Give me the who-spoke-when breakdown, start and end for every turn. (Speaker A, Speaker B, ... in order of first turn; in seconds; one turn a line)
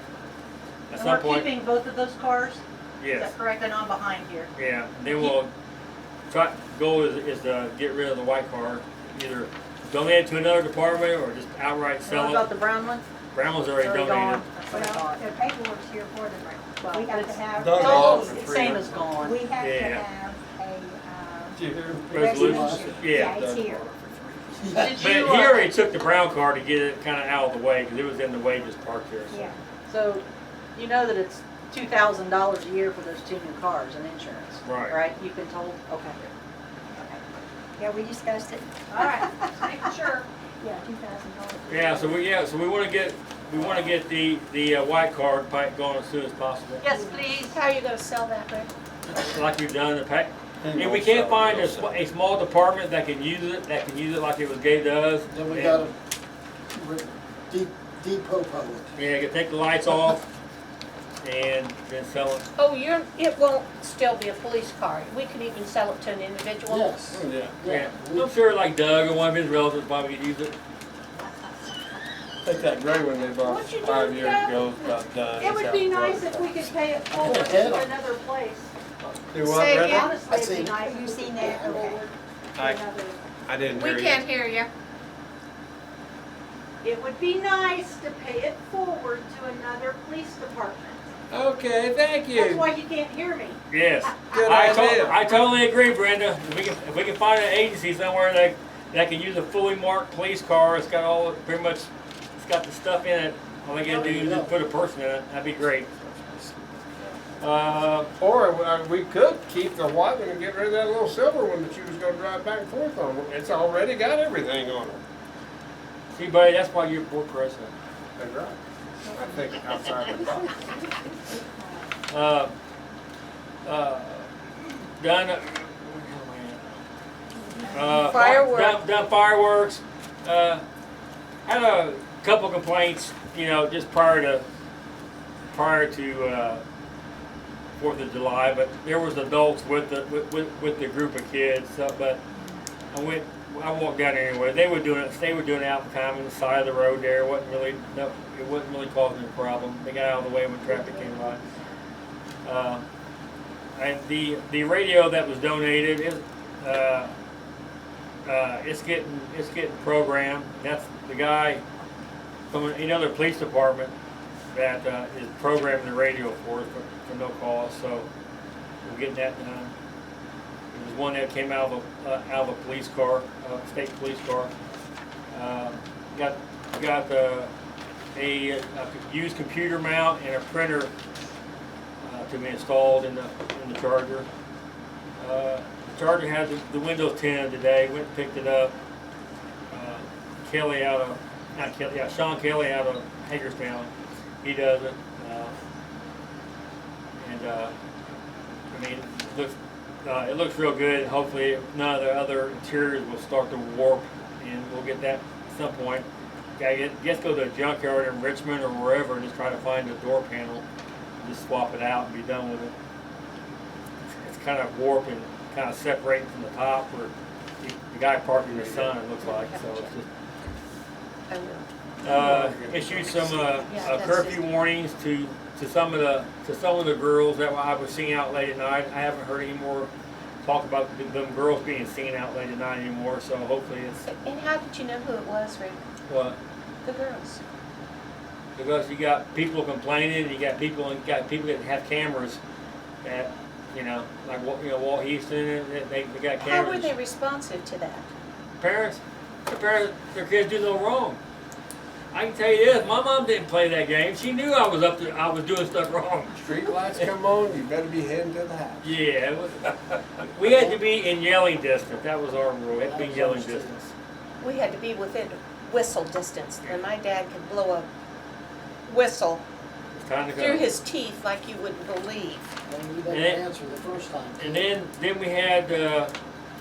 Speaker A: 0.9-1.5
Speaker B: 0.9-2.6
Speaker A: 3.0-3.3
Speaker B: 3.1-4.5
Speaker A: 4.5-5.5
Speaker A: 6.3-12.5
Speaker B: 12.0-13.0
Speaker A: 13.3-14.5
Speaker B: 13.8-15.3
Speaker C: 14.7-18.4
Speaker B: 16.8-19.4
Speaker D: 17.5-19.2
Speaker C: 19.1-21.6
Speaker A: 19.6-20.1
Speaker D: 21.5-24.7
Speaker E: 22.1-22.9
Speaker A: 22.1-23.4
Speaker C: 22.2-23.9
Speaker E: 24.6-25.1
Speaker B: 24.7-25.7
Speaker A: 25.0-29.5
Speaker C: 29.3-29.6
Speaker B: 29.9-30.2
Speaker B: 30.7-36.2
Speaker A: 34.6-35.0
Speaker C: 37.8-39.7
Speaker B: 38.9-40.3
Speaker C: 40.6-42.2
Speaker A: 41.7-46.8
Speaker D: 43.6-43.9
Speaker B: 46.8-47.5
Speaker C: 46.9-47.2
Speaker F: 47.4-48.7
Speaker A: 49.1-55.9
Speaker D: 50.6-52.0
Speaker E: 55.3-55.9
Speaker E: 56.7-59.0
Speaker A: 58.9-60.3
Speaker A: 61.2-62.4
Speaker F: 62.6-67.0
Speaker E: 66.7-68.3
Speaker D: 67.1-67.5
Speaker A: 67.6-70.5
Speaker D: 72.4-76.7
Speaker B: 73.4-78.7
Speaker E: 77.1-77.9
Speaker D: 79.0-80.1
Speaker F: 79.4-80.1
Speaker B: 79.7-83.2
Speaker E: 80.3-80.7
Speaker C: 80.7-82.0
Speaker D: 82.5-82.8
Speaker D: 83.5-84.2
Speaker F: 83.7-84.7
Speaker B: 86.8-91.1
Speaker D: 91.3-92.7
Speaker B: 92.3-94.3
Speaker A: 93.7-105.9
Speaker D: 94.3-95.2
Speaker E: 103.8-104.5
Speaker E: 105.8-107.7
Speaker A: 107.4-108.1
Speaker D: 108.2-115.0
Speaker A: 116.1-117.7
Speaker D: 118.2-120.7
Speaker A: 122.1-122.5
Speaker A: 123.6-126.8
Speaker A: 127.7-130.6
Speaker F: 127.9-128.8
Speaker A: 131.4-134.4
Speaker A: 135.5-136.6
Speaker A: 137.8-142.2
Speaker A: 142.9-151.4
Speaker A: 152.4-152.8
Speaker A: 153.8-157.1
Speaker A: 158.2-161.6
Speaker A: 162.5-163.9
Speaker A: 164.5-168.1
Speaker A: 168.8-169.7
Speaker A: 170.7-174.5
Speaker A: 175.3-177.5
Speaker A: 178.1-180.9
Speaker A: 182.0-184.3
Speaker A: 185.2-188.7
Speaker A: 189.7-193.9
Speaker A: 194.4-195.5
Speaker A: 197.2-197.7
Speaker A: 198.7-206.1
Speaker A: 206.6-210.6
Speaker A: 211.2-212.7
Speaker A: 214.0-220.1
Speaker D: 218.4-219.1
Speaker F: 219.1-219.9
Speaker F: 221.3-221.6
Speaker D: 222.0-223.9
Speaker A: 222.0-229.9
Speaker F: 223.6-224.4
Speaker A: 230.4-234.0
Speaker F: 234.0-235.8
Speaker A: 236.1-236.4
Speaker F: 236.8-237.4
Speaker A: 238.6-242.4
Speaker A: 243.0-246.9
Speaker F: 246.4-248.1
Speaker A: 248.6-251.2
Speaker A: 252.1-256.4
Speaker D: 256.3-258.9
Speaker A: 258.8-263.7
Speaker E: 260.4-260.8
Speaker E: 262.8-263.9
Speaker F: 264.4-267.9
Speaker F: 268.9-269.4
Speaker A: 269.9-270.7
Speaker F: 270.3-272.5
Speaker E: 272.7-274.6
Speaker A: 273.1-273.4
Speaker A: 274.4-276.1